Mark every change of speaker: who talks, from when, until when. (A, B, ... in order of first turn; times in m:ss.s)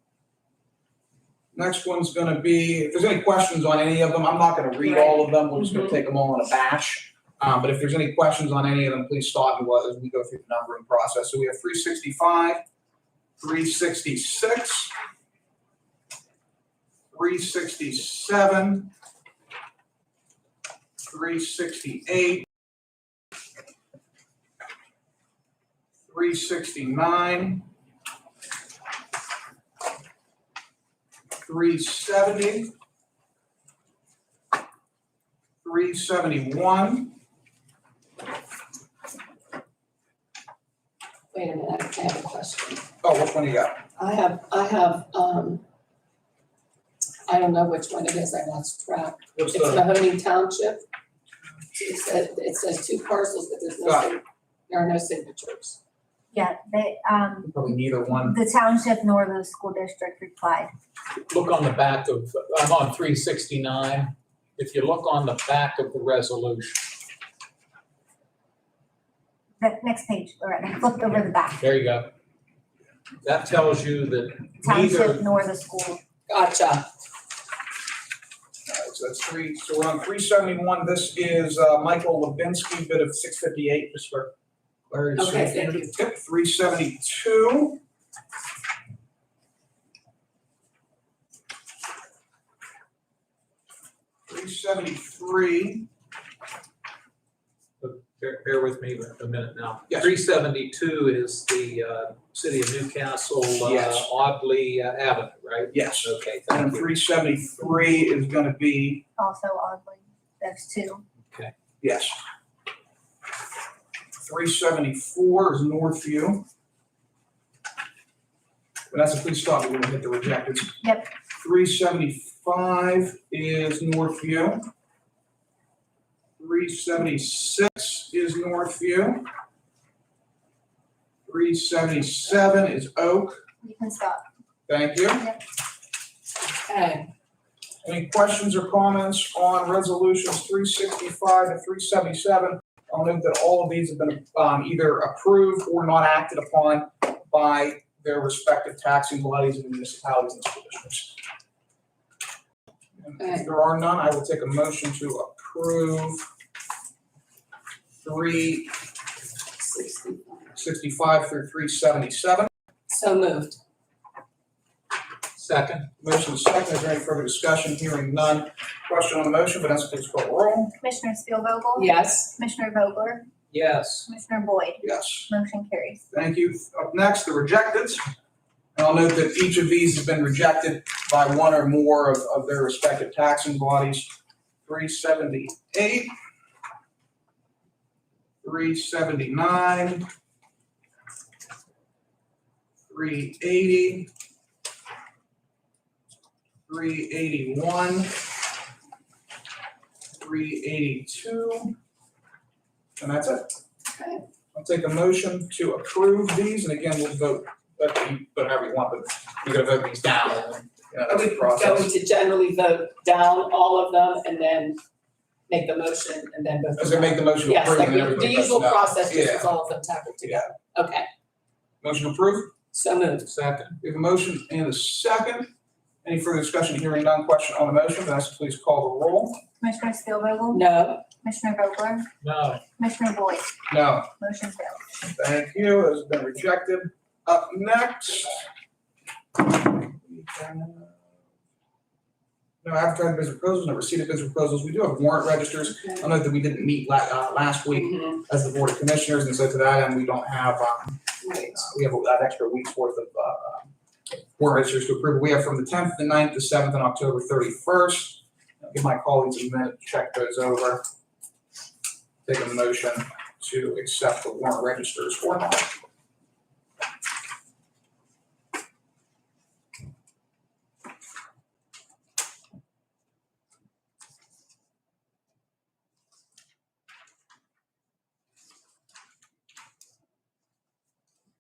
0:01.5-0:12.6 A
0:04.8-0:06.0 B
0:13.4-0:14.9 A
0:17.1-0:18.9 A
0:21.1-0:22.5 A
0:26.1-0:27.7 A
0:31.4-0:32.7 A
0:35.6-0:37.2 A
0:41.3-0:42.8 B
0:43.0-0:43.8 A
0:44.0-0:45.6 B
0:47.3-0:50.8 B
0:49.3-0:49.9 A
0:51.7-0:55.8 B
0:53.8-0:54.1 A
0:56.3-1:00.7 C
0:57.4-0:58.4 A
1:01.3-1:06.9 D
1:09.6-1:11.6 C
1:11.6-1:12.1 D
1:13.2-1:15.2 D
1:14.6-1:16.0 C
1:16.3-1:16.8 B
1:18.7-1:24.3 A
1:24.9-1:27.8 A
1:25.2-1:26.0 B
1:34.3-1:35.9 A
1:37.8-1:46.9 D
1:43.6-1:44.1 A
1:45.7-1:49.0 A
1:49.2-1:51.0 C
1:51.2-1:51.5 D
1:51.8-1:52.2 A
1:54.2-1:56.4 A
1:58.9-2:04.7 A
2:00.8-2:01.1 C
2:06.4-2:09.2 A
2:11.2-2:13.4 A
2:13.6-2:14.2 C
2:14.7-2:15.3 A
2:16.6-2:17.1 B
2:17.8-2:31.2 A
2:33.0-2:36.2 A
2:33.2-2:33.5 B
2:38.0-2:38.7 A
2:39.6-2:40.5 B
2:40.6-2:42.5 A
2:42.9-2:43.6 B
2:45.4-2:45.9 D
2:46.0-2:50.7 A
2:50.8-2:53.3 C
2:51.8-2:52.3 B
2:53.5-2:54.1 D
2:54.1-2:56.0 C
2:54.8-2:55.3 A
2:56.1-2:58.0 A
2:58.8-3:04.1 A
3:04.6-3:06.1 A
3:08.4-3:10.1 A
3:12.9-3:14.1 A
3:16.7-3:18.2 A
3:20.2-3:21.8 A
3:23.0-3:23.5 A
3:23.9-3:24.2 B
3:24.5-3:31.9 A
3:31.1-3:34.8 B
3:35.5-3:41.1 B
3:36.8-3:39.5 A
3:40.2-3:40.5 A
3:41.8-3:42.5 A
3:42.7-3:43.3 B
3:43.2-3:43.8 D
3:43.8-3:45.5 A
3:46.0-3:49.4 A
3:49.6-3:50.6 C
3:50.5-3:51.0 B
3:51.2-3:52.1 C
3:52.2-3:52.6 D
3:52.8-3:53.6 C
3:53.7-3:54.1 A
3:54.2-3:54.8 C
3:55.1-3:58.5 A
3:59.5-4:01.0 A
4:02.6-4:13.7 A
4:05.7-4:06.0 B
4:07.8-4:08.2 B
4:11.2-4:11.7 B
4:14.4-4:20.8 A
4:22.2-4:25.7 A